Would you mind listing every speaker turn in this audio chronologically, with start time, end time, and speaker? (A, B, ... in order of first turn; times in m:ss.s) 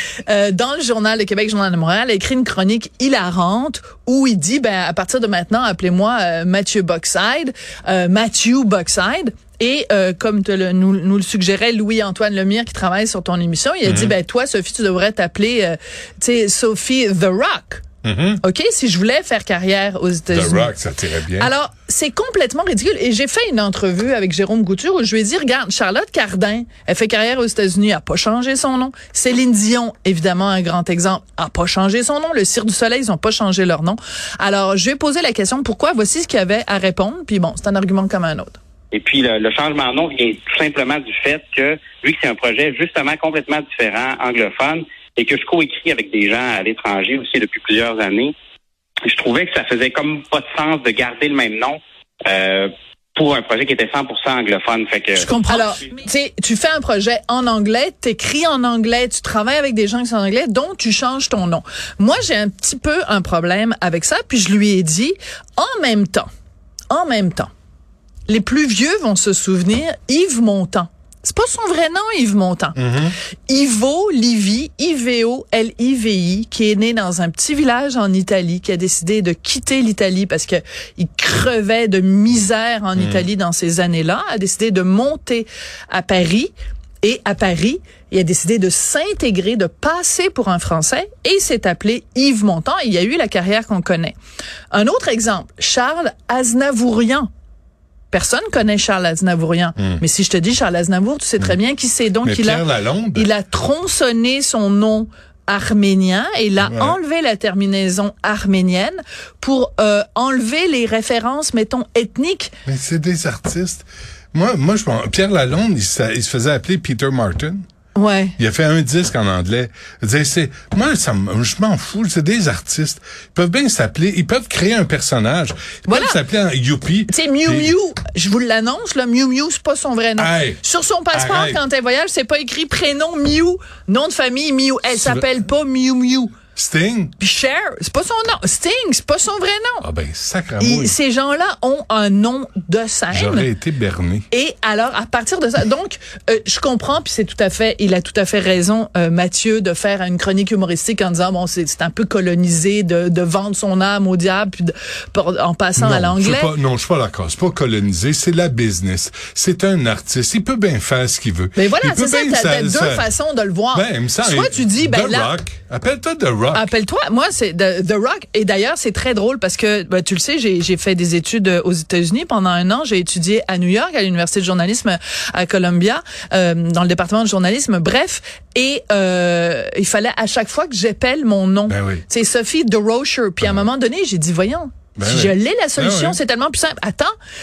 0:00.2-0:17.8 A
0:13.8-0:14.1 B
0:18.0-0:18.4 B
0:18.4-0:20.7 A
0:20.3-0:21.5 B
0:21.3-0:38.6 A
0:38.9-0:48.3 C
0:49.1-0:55.3 C
0:55.1-1:06.3 A
1:06.9-1:07.5 A
1:08.3-1:12.8 A
1:12.8-1:13.1 B
1:13.5-1:34.2 A
1:23.0-1:23.2 B
1:34.7-1:37.3 A
1:38.1-1:52.5 A
1:42.2-1:43.3 B
1:46.6-1:47.0 B
1:52.6-1:57.6 B
1:57.9-1:58.4 A
1:58.4-2:07.7 B
2:05.9-2:06.2 A
2:07.1-2:16.3 A
2:10.2-2:10.6 B
2:11.1-2:11.6 B
2:14.9-2:15.3 B
2:16.5-2:17.1 B
2:17.2-2:19.8 A
2:19.8-2:21.0 B
2:20.6-2:23.5 A
2:23.1-2:24.3 B
2:24.3-2:36.5 A
2:35.8-2:43.1 B
2:41.6-2:45.4 A
2:43.7-2:46.7 B
2:46.5-3:07.1 A
3:01.7-3:02.0 B
3:05.0-3:06.2 B